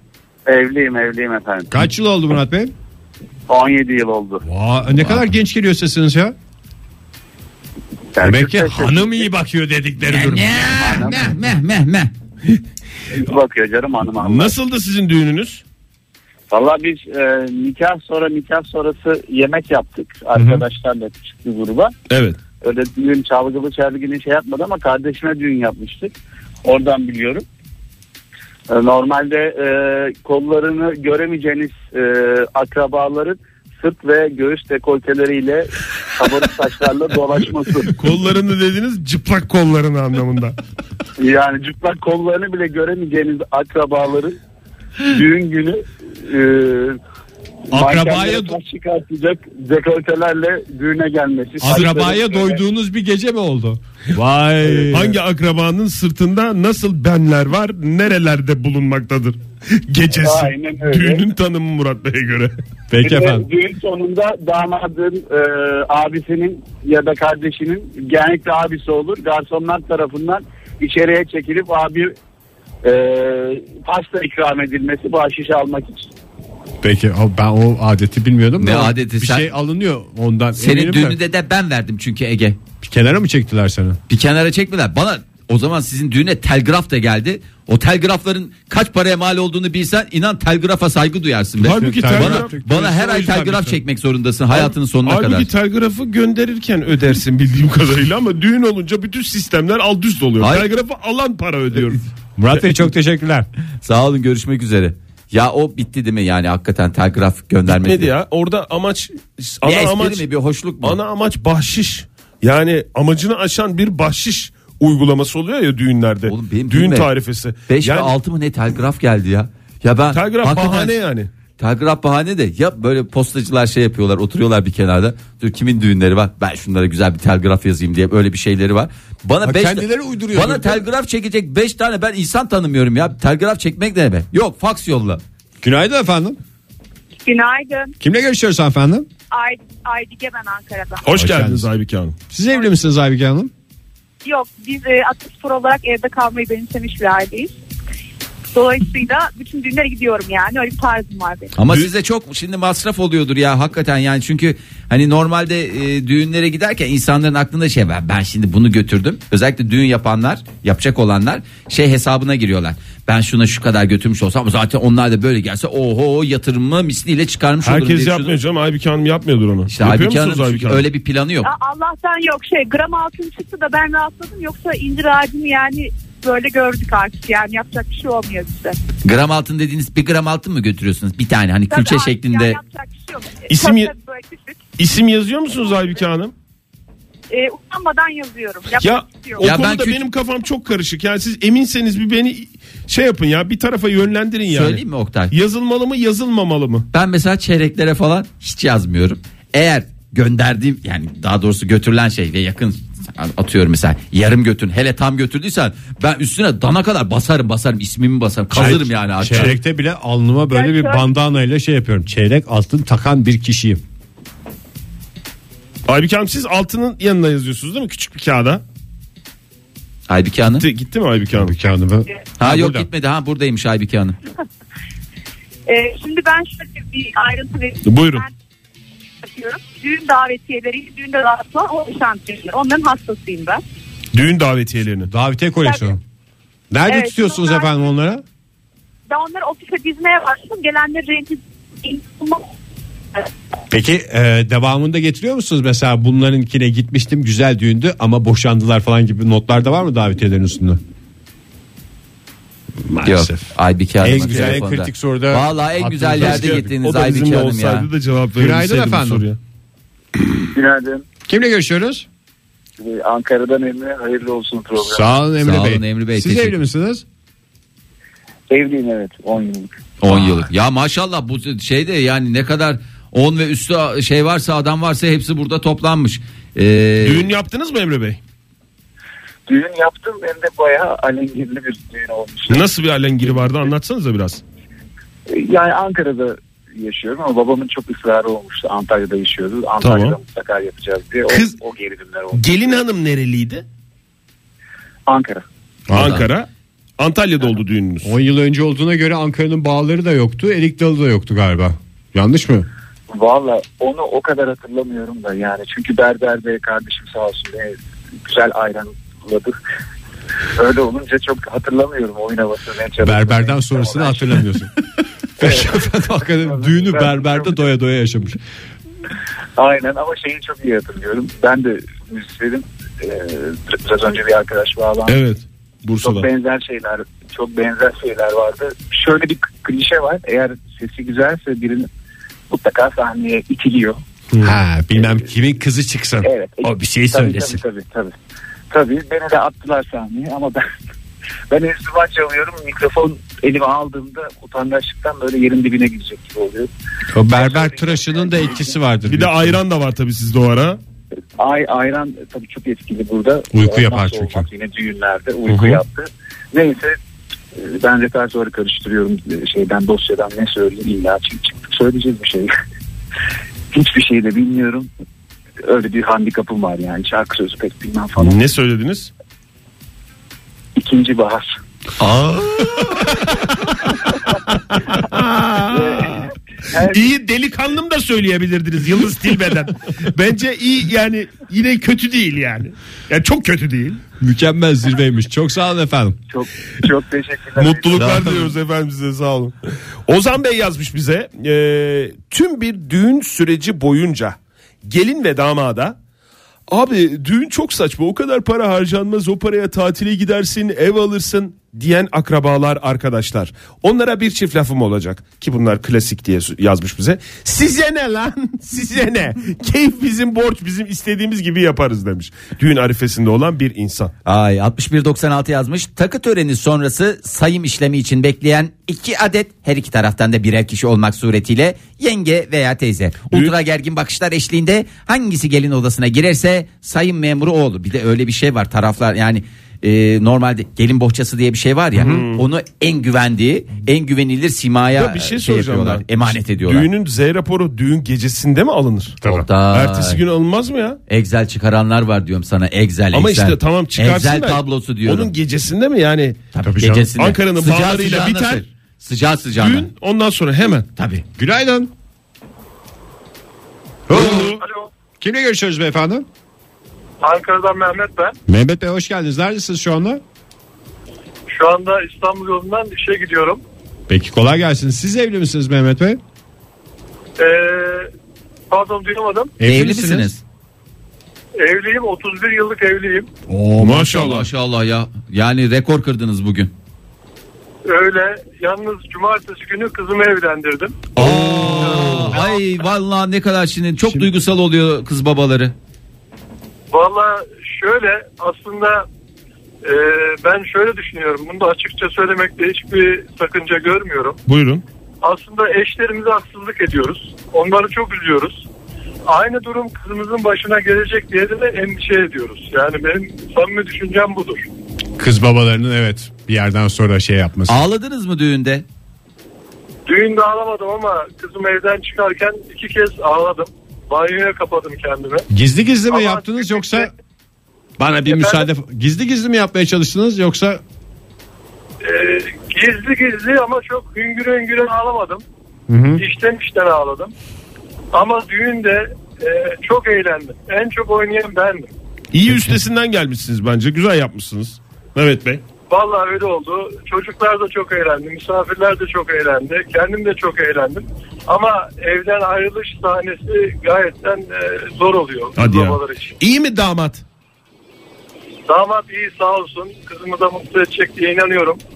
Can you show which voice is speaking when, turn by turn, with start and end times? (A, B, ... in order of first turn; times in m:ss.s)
0:00.5-0:01.7 A
0:01.7-0:02.7 B
0:03.5-0:04.4 A
0:04.4-0:06.3 B
0:08.1-0:09.3 A
0:08.2-0:10.7 B
0:10.0-0:12.1 C
0:10.7-0:11.3 A
0:13.1-0:14.6 A
0:14.1-0:15.6 D
0:16.5-0:21.9 A
0:20.3-0:20.6 B
0:22.1-0:22.4 D
0:22.6-0:26.1 A
0:26.6-0:27.4 A
0:28.7-0:38.0 A
0:37.9-0:40.5 D
0:41.2-0:44.4 A
0:45.0-0:47.0 A
0:47.7-0:52.6 A
0:47.7-0:48.6 B
0:51.6-0:55.2 B
0:54.2-1:02.5 D
1:00.1-1:01.2 A
1:02.9-1:03.5 B
1:03.0-1:12.1 A
1:12.8-1:16.1 A
1:16.8-1:21.2 B
1:18.6-1:19.5 C
1:20.6-1:22.6 C
1:22.8-1:24.0 B
1:24.1-1:35.5 C
1:31.6-1:32.5 D
1:31.7-1:33.8 B
1:34.5-1:42.0 D
1:40.4-1:40.7 C
1:42.4-1:43.5 B
1:43.8-1:48.1 C
1:47.7-1:50.2 D
1:49.6-1:51.0 C
1:50.8-1:58.1 D
1:56.2-1:57.1 C
1:57.7-2:00.9 C
2:00.1-2:01.3 D
2:01.6-2:15.2 C
2:09.4-2:10.8 B
2:15.6-2:16.4 B
2:17.2-2:17.9 E
2:18.0-2:19.1 B
2:19.3-2:21.2 E
2:21.0-2:22.2 D
2:21.1-2:21.7 B
2:22.3-2:23.5 B
2:24.2-2:27.5 E
2:28.5-2:31.5 E
2:31.6-2:48.4 C
2:47.6-2:50.8 D
2:49.7-2:51.5 C
2:51.4-2:58.8 E
2:59.0-3:02.6 C
3:01.7-3:04.6 E
3:03.5-3:03.9 D
3:04.8-3:06.3 D
3:05.6-3:06.0 E
3:07.3-3:09.4 E
3:08.8-3:16.9 D
3:09.4-3:10.0 C
3:14.5-3:15.3 C
3:16.9-3:29.6 C
3:28.5-3:33.8 B
3:28.6-3:29.5 D
3:30.5-3:31.0 E
3:35.9-3:38.6 D
3:40.1-3:40.7 C
3:40.6-3:41.6 D
3:41.3-3:42.9 B
3:42.4-3:44.2 C
3:45.7-3:48.3 E
3:47.8-3:48.3 D
3:49.2-3:53.6 E
3:54.1-3:55.1 D
3:55.1-3:56.0 B
3:55.6-3:55.9 E
3:56.7-3:58.2 B
3:56.9-3:57.8 E
3:59.1-4:02.4 E
4:03.7-4:10.8 B
4:12.8-4:16.7 B
4:13.0-4:17.9 C
4:16.1-4:19.4 D
4:18.4-4:19.2 B
4:20.5-4:21.1 F
4:21.2-4:22.1 B
4:22.8-4:25.1 F
4:24.8-4:27.0 B
4:25.4-4:26.6 C
4:28.5-4:29.7 F
4:30.0-4:37.3 C
4:37.0-4:38.2 D
4:39.5-4:42.7 F
4:42.5-4:44.4 D
4:45.3-4:52.6 F
4:49.8-4:50.2 D
4:51.3-4:51.5 D
4:52.3-4:53.6 D
4:55.1-4:55.4 F
4:55.9-4:58.1 D
4:56.0-4:56.2 C
4:58.0-5:02.7 B
5:03.1-5:09.6 F
5:10.5-5:14.4 F
5:13.0-5:14.7 B
5:15.4-5:18.4 B
5:15.4-5:17.6 F
5:19.6-5:25.2 F
5:25.1-5:26.3 D
5:26.0-5:31.9 F
5:32.5-5:34.0 F
5:34.4-5:37.6 B
5:35.0-5:35.2 F
5:36.2-5:38.1 F
5:38.7-5:40.6 F
5:41.5-5:46.7 F
5:47.1-5:49.6 B
5:47.3-5:48.8 F
5:49.0-5:50.8 D
5:51.4-5:57.0 F
5:53.5-5:54.4 B
5:55.5-5:55.8 D
5:57.5-6:02.5 F
6:03.7-6:04.9 F
6:05.6-6:08.4 F
6:08.2-6:09.1 D
6:10.8-6:11.5 F
6:12.6-6:13.3 D
6:14.4-6:24.0 D
6:15.8-6:17.0 F
6:24.2-6:26.2 B
6:26.3-6:28.3 F
6:27.6-6:29.5 D
6:28.0-6:28.2 B
6:30.0-6:36.0 D
6:36.7-6:54.1 D
6:54.2-7:16.9 C
7:12.0-7:12.4 D
7:14.9-7:21.0 D
7:19.2-7:20.2 C
7:21.1-7:25.3 C
7:23.1-7:26.4 D
7:26.5-7:29.9 C
7:26.6-7:27.1 B
7:27.1-7:28.6 D
7:29.6-7:30.9 D
7:31.0-7:31.2 C
7:31.4-7:31.9 B
7:34.1-7:34.6 B
7:34.1-7:34.6 D
7:34.4-7:34.9 G
7:35.2-7:36.2 B
7:37.2-7:38.3 G
7:38.5-7:40.2 B
7:41.5-7:43.6 G
7:44.1-7:46.2 B
7:47.4-7:48.1 G
7:48.7-7:49.5 G
7:49.6-7:50.3 B
7:49.6-7:50.4 C
7:51.6-7:53.3 G
7:53.5-7:54.4 B
7:53.8-7:54.4 D
7:54.0-7:56.7 C
7:57.8-8:01.1 G
8:01.2-8:05.7 C
8:01.2-8:02.4 B
8:01.2-8:02.0 D
8:06.9-8:09.0 G
8:09.8-8:14.4 G
8:14.5-8:14.8 D
8:15.2-8:18.6 G
8:19.3-8:24.7 G
8:25.2-8:27.8 B
8:27.7-8:28.8 C
8:30.0-8:35.5 G
8:35.5-8:37.1 B
8:36.1-8:37.1 G
8:38.0-8:40.8 B
8:38.3-8:38.7 G
8:42.0-8:45.4 G
8:45.9-8:46.2 B
8:46.2-8:47.3 G
8:48.1-8:51.9 G
8:52.3-8:55.6 D
8:55.9-9:06.4 G
9:05.6-9:07.2 D
9:08.7-9:11.8 G